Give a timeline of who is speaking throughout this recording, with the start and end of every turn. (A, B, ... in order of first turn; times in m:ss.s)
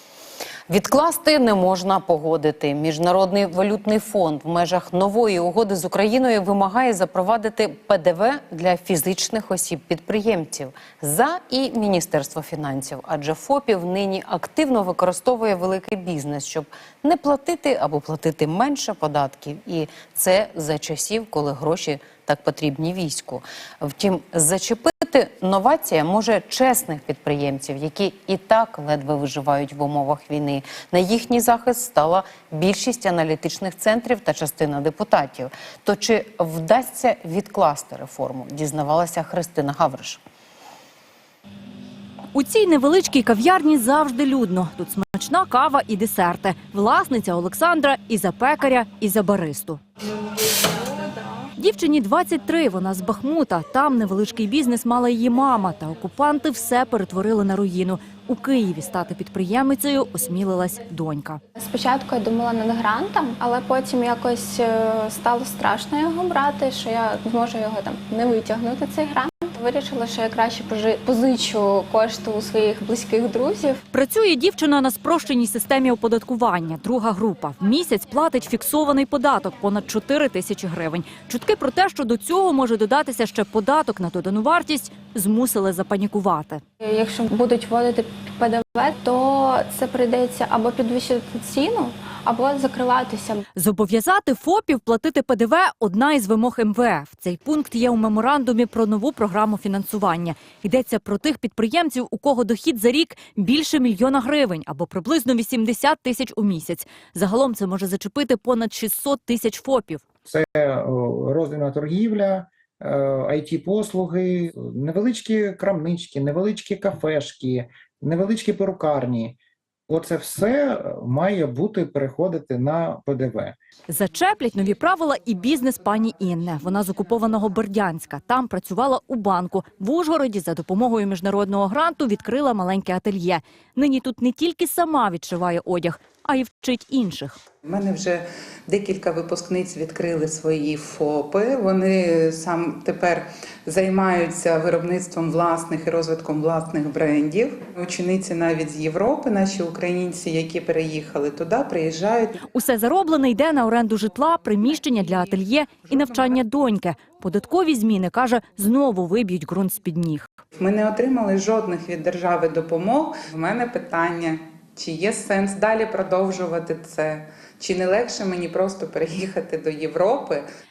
0:00.7-0:40.2 A
0:42.3-0:49.8 B
0:51.5-1:01.4 B
1:01.6-1:13.8 C
1:13.9-1:26.6 B
1:26.8-1:33.4 C
1:33.5-1:50.0 B
1:50.2-1:59.4 D
1:59.9-2:03.6 D
2:03.9-2:17.4 B
2:17.6-2:32.3 E
2:32.4-2:40.3 B
2:40.6-2:50.4 E